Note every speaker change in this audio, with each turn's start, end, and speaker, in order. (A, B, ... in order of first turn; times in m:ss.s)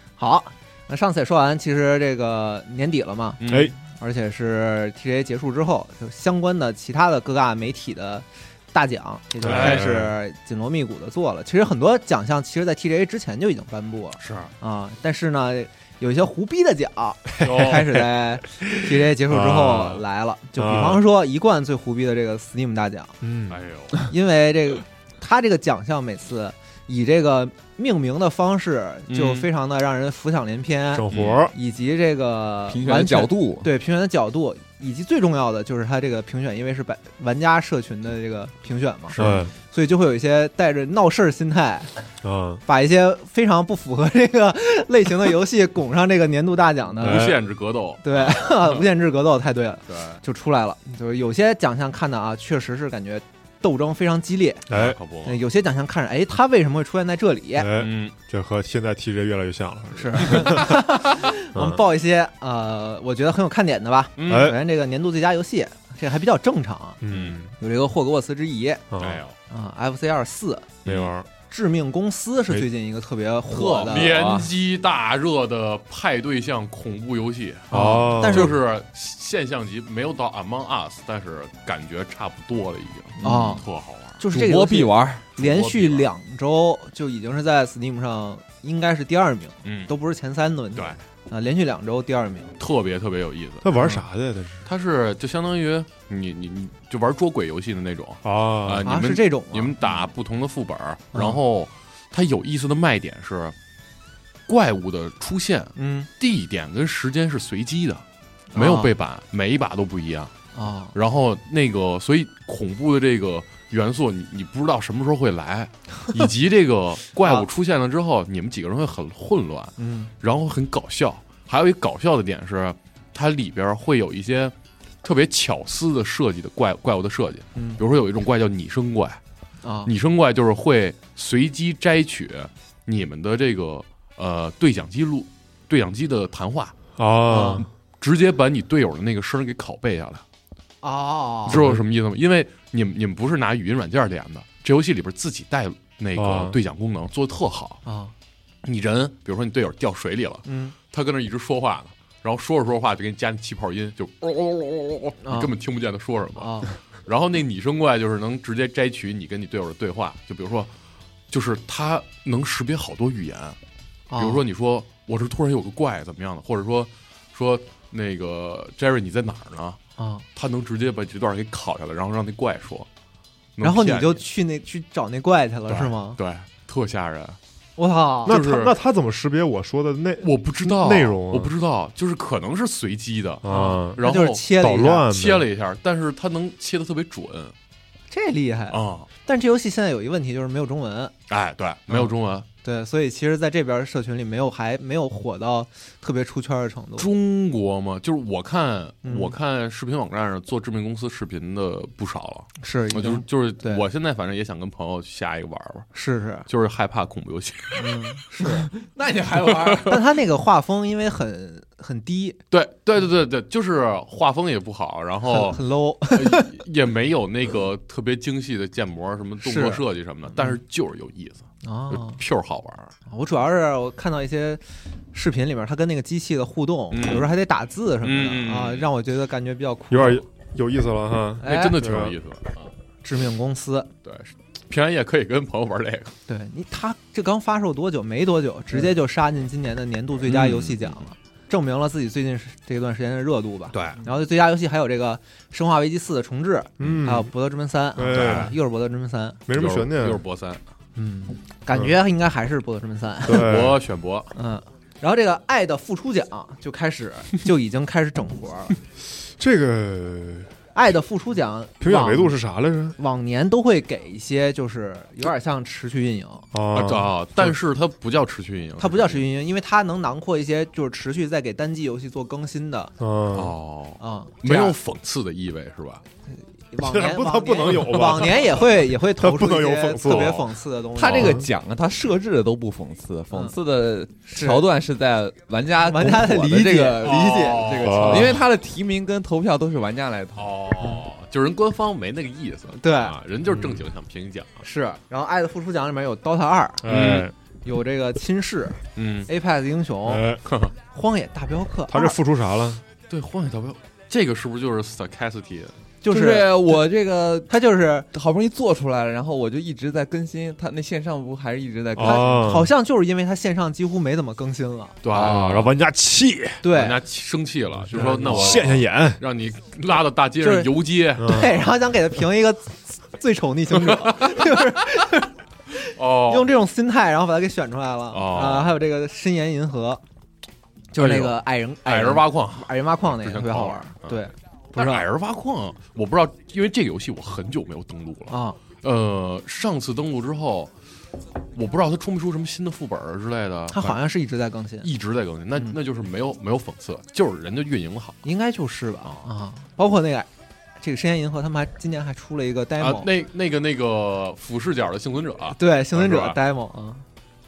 0:00.2-0:23.2 A
0:03.4-0:03.7 B
0:03.5-0:03.7 C
0:09.4-0:10.1 C
0:09.4-0:09.9 B
0:14.2-0:14.5 B
0:17.4-0:18.0 B
0:17.5-0:17.8 C
0:18.6-0:20.0 C
0:20.6-0:21.0 C
0:23.2-0:23.6 C
0:23.5-0:24.0 B
0:24.0-0:41.9 A
0:29.1-0:29.5 B
0:30.9-0:31.5 C
0:31.1-0:31.5 B
0:32.7-0:33.7 D
0:39.1-0:39.4 B
0:39.2-0:39.5 C
0:42.2-0:42.6 C
0:42.6-0:47.3 A
0:47.0-0:48.8 B
0:47.0-0:47.4 C
0:48.0-0:54.6 A
0:49.9-0:50.2 B
0:54.7-0:55.0 C
0:54.7-0:55.4 B
0:55.2-0:57.7 A
0:57.5-1:01.0 C
0:57.7-0:58.1 B
1:00.0-1:07.0 A
1:01.5-1:01.8 C
1:04.2-1:04.5 B
1:04.3-1:04.6 C
1:07.0-1:07.5 C
1:07.1-1:07.4 B
1:07.6-1:08.8 A
1:08.9-1:09.2 C
1:09.0-1:09.4 B
1:09.5-1:10.8 A
1:10.8-1:11.1 B
1:10.8-1:11.3 C
1:11.4-1:14.4 A
1:13.5-1:24.2 B
1:13.8-1:14.5 D
1:17.7-1:18.5 A
1:17.7-1:18.6 C
1:23.2-1:23.6 A
1:23.2-1:23.6 D
1:24.2-1:32.5 A
1:24.3-1:25.3 D
1:25.4-1:26.1 B
1:29.6-1:29.9 B
1:32.6-1:33.7 B
1:33.6-1:34.6 C
1:33.8-1:34.0 A
1:34.6-1:43.5 B
1:38.2-1:38.9 C
1:38.8-1:39.8 A
1:41.1-1:41.4 A
1:44.5-1:50.3 B
1:45.8-1:46.1 A
1:48.5-1:48.9 A
1:50.5-1:50.9 A
1:50.9-2:09.2 B
1:57.2-1:57.5 A
1:59.8-2:00.1 A
2:09.6-2:09.9 A
2:09.8-2:16.7 B
2:17.0-2:17.7 C
2:17.3-2:17.6 A
2:18.0-2:20.2 B
2:20.8-2:21.6 A
2:21.5-2:27.8 B
2:21.5-2:21.8 C
2:26.2-2:26.6 C
2:27.8-2:28.1 A
2:28.6-2:40.7 B
2:30.4-2:30.7 A
2:35.2-2:35.5 A
2:36.4-2:36.7 A
2:41.3-2:43.6 B
2:44.1-2:44.4 A
2:44.2-2:49.8 B
2:50.0-2:50.2 A
2:50.3-2:52.9 B
2:53.6-2:54.2 B
2:53.6-2:56.2 A
2:55.7-2:57.4 B
2:57.8-2:58.3 A
2:58.2-2:58.7 B
2:58.2-3:01.5 C
3:00.2-3:03.4 B
3:03.4-3:05.5 C
3:03.4-3:05.0 A
3:04.0-3:07.5 B
3:08.1-3:11.1 A
3:08.7-3:09.1 B
3:11.3-3:12.5 B
3:11.9-3:17.1 A
3:17.0-3:25.9 B
3:19.0-3:19.3 A
3:22.6-3:23.8 A
3:25.9-3:26.5 A
3:26.5-3:28.2 B
3:27.8-3:28.7 A
3:28.4-3:30.0 D
3:29.4-3:30.0 B
3:29.8-3:32.4 A
3:32.5-3:42.9 B
3:35.3-3:36.5 A
3:39.4-3:39.8 A
3:41.6-3:42.2 A
3:43.1-3:44.6 A
3:45.1-3:50.2 A
3:46.9-3:47.3 B
3:48.0-3:48.9 B
3:49.9-3:52.2 C
3:51.4-3:51.8 A
3:51.4-3:52.7 B
3:53.0-3:53.9 A
3:54.0-3:56.2 B
3:56.3-4:09.4 A
4:00.3-4:01.0 B
4:03.7-4:04.0 B
4:06.8-4:07.3 C
4:08.0-4:08.5 C
4:08.0-4:08.5 B
4:09.5-4:10.2 C
4:09.5-4:10.6 B
4:11.0-4:13.5 A
4:13.2-4:13.8 C
4:13.3-4:14.3 B
4:14.3-4:18.8 A
4:19.3-4:20.5 C
4:20.7-4:22.4 A
4:21.8-4:23.0 C
4:23.0-4:26.4 A
4:26.5-4:27.5 C
4:26.7-4:29.2 B
4:28.8-4:32.9 A
4:33.0-4:33.5 C
4:33.3-4:36.0 B
4:34.0-4:34.8 A
4:36.3-4:41.4 A
4:36.8-4:40.5 C
4:40.9-4:50.5 D
4:41.1-4:41.5 C
4:44.2-4:44.7 A
4:45.8-4:47.8 A
4:47.0-4:48.4 B
4:47.8-4:48.4 C
4:50.4-4:54.6 B
4:52.8-4:53.2 A
4:53.5-4:53.8 C
4:54.6-5:00.2 A
4:56.8-4:57.3 C
4:56.9-4:57.3 B
4:59.0-4:59.3 B
5:00.0-5:00.4 C
5:00.4-5:00.7 B
5:00.9-5:02.2 A
5:01.9-5:02.8 C
5:03.1-5:05.7 B
5:06.0-5:06.8 A
5:06.1-5:07.5 D
5:07.5-5:08.1 A
5:08.1-5:12.6 D
5:11.9-5:12.7 C
5:12.0-5:15.4 A
5:15.0-5:15.7 B
5:15.1-5:16.6 C
5:16.6-5:17.0 A
5:16.7-5:21.5 B
5:17.9-5:19.2 C
5:20.4-5:30.0 A
5:21.2-5:21.6 C
5:23.9-5:24.3 B
5:25.9-5:26.5 B
5:28.1-5:28.8 B
5:30.9-5:35.0 A
5:31.0-5:34.2 B
5:34.7-5:40.7 B
5:38.3-5:38.6 A
5:41.5-5:44.0 B
5:43.7-5:44.9 A
5:44.8-5:48.2 B
5:48.2-5:50.3 A
5:50.8-5:53.1 A
5:52.8-5:56.4 B
5:55.5-5:57.0 A